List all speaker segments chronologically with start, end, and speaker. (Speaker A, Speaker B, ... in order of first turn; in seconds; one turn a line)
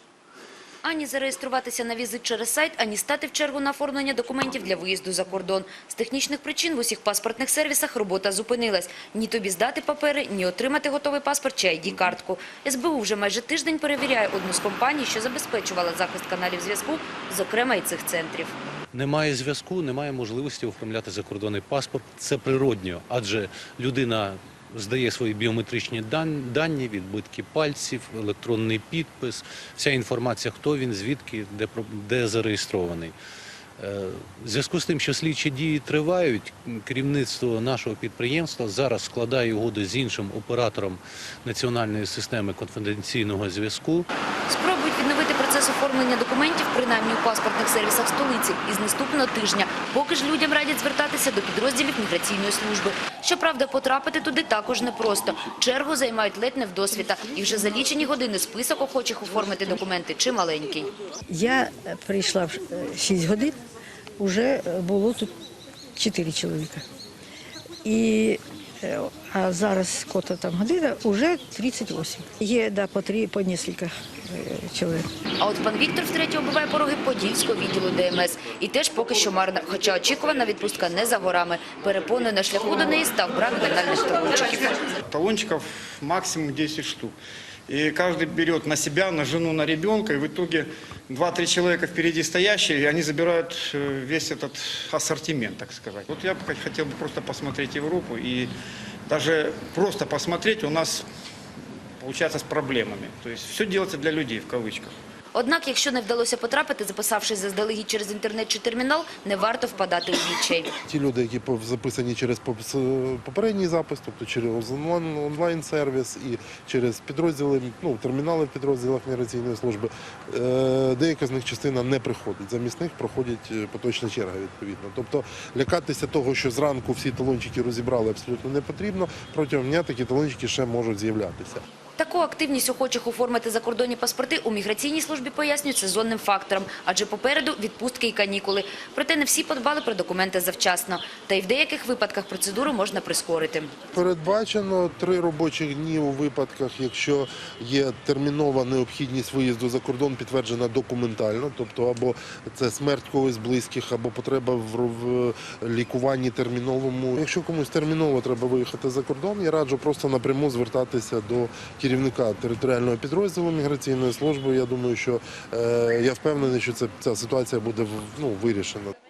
Speaker A: 0.8-18.6
Speaker B: 18.9-33.1
Speaker B: 33.8-44.1
Speaker A: 44.5-60.9
Speaker C: 61.3-63.5
Speaker C: 64.2-65.3
Speaker C: 66.0-66.8
Speaker C: 67.8-75.0
Speaker A: 75.4-84.8
Speaker D: 85.0-87.1
Speaker D: 87.7-98.5
Speaker D: 99.1-101.0
Speaker D: 102.0-104.9
Speaker A: 105.3-110.7
Speaker E: 110.8-131.6
Speaker A: 132.0-143.7
Speaker E: 143.9-168.9